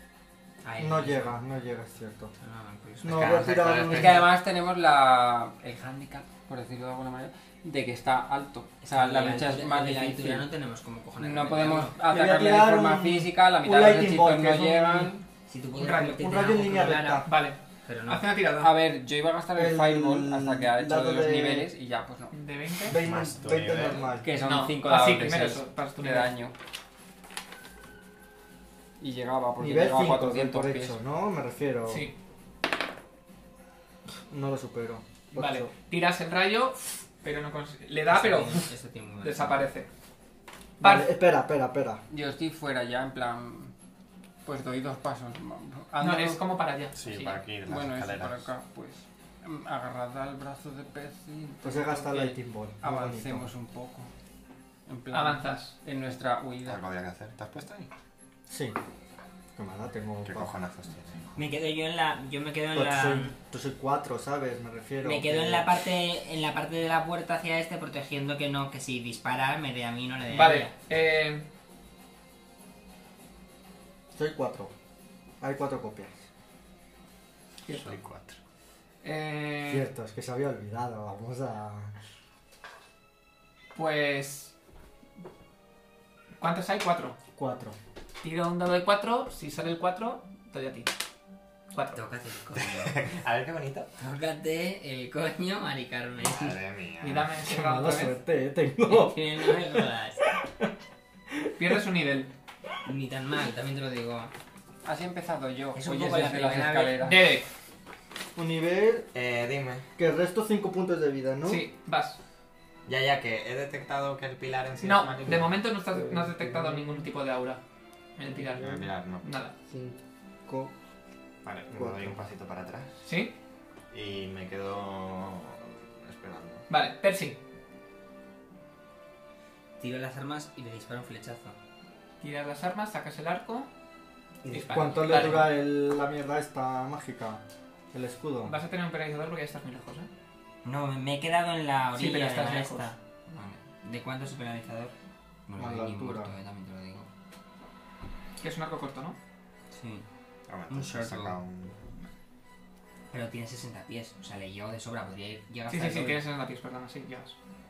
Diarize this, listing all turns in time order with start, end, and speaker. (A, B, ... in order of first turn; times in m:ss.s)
0:00.6-0:01.4 A
0:00.8-0:02.3 B
0:02.4-0:03.6 A
0:03.0-0:04.3 B
0:03.0-0:04.3 C
0:03.8-0:10.5 D
0:08.8-0:12.0 A
0:11.2-0:15.2 D
0:12.1-0:15.1 B
0:15.5-0:17.3 A
0:15.8-0:16.2 E
0:16.2-0:17.3 B
0:17.3-0:18.7 E
0:17.8-0:18.2 A
0:18.6-0:22.4 D
0:19.6-0:21.7 B
0:22.3-0:23.0 E
0:22.8-0:24.3 B
0:22.9-0:24.1 C
0:24.2-0:26.5 D
0:24.4-0:26.3 E
0:29.0-0:31.0 D
0:29.6-0:32.1 B
0:31.9-0:32.1 E
0:34.3-0:35.7 B
0:35.4-0:38.7 E
0:38.1-0:39.6 A
0:39.2-0:39.9 E
0:40.8-0:42.0 B
0:40.8-0:41.1 E
0:42.1-0:43.7 D
0:44.4-0:46.4 D
0:46.0-0:47.4 E
0:47.0-0:48.5 C
0:47.6-0:54.1 D
0:51.6-0:53.5 B
0:54.9-0:56.8 D
0:55.1-0:55.8 E
0:56.6-0:57.9 C
0:58.5-0:58.8 B
0:59.6-1:00.5 B
1:00.2-1:01.4 C
1:01.4-1:03.3 A
1:02.7-1:05.7 B
1:05.0-1:10.7 A
1:10.3-1:11.4 E
1:14.2-1:14.7 B
1:15.4-1:16.2 B
1:17.7-1:18.0 E
1:17.7-1:18.4 C
1:19.0-1:19.9 E
1:19.7-1:21.9 B
1:23.8-1:24.5 E
1:26.4-1:27.2 E
1:27.4-1:27.8 B
1:28.2-1:30.9 E
1:31.7-1:32.0 E
1:31.9-1:33.0 A
1:32.6-1:33.9 C
1:34.0-1:36.6 A
1:36.2-1:37.3 C
1:37.0-1:38.2 E
1:37.4-1:40.7 B
1:38.8-1:40.2 A
1:41.3-1:41.8 B
1:41.6-1:42.3 E
1:42.8-1:44.3 A
1:44.8-1:47.3 D
1:45.8-1:47.0 A
1:47.0-1:47.5 E
1:48.4-1:49.1 B
1:49.1-1:49.9 C
1:50.0-1:51.6 B
1:51.4-1:52.2 E
1:52.9-1:55.5 C
1:54.8-1:57.6 E
1:58.2-1:59.6 E
1:58.6-1:59.2 C
1:59.7-2:00.7 B
2:01.4-2:02.9 C
2:01.8-2:02.2 B
2:03.0-2:03.3 E
2:03.9-2:06.7 C
2:06.7-2:07.4 E
2:09.8-2:11.6 A
2:12.2-2:13.7 E
2:14.5-2:17.4 B
2:14.5-2:15.6 E
2:17.9-2:18.6 B
2:18.4-2:20.1 E
2:20.6-2:24.9 A
2:22.0-2:23.0 E
2:25.5-2:27.1 A
2:25.6-2:26.3 B
2:28.4-2:29.2 E
2:29.7-2:30.1 A
2:30.5-2:31.9 C
2:30.7-2:31.4 A
2:33.1-2:36.2 A
2:35.7-2:37.4 E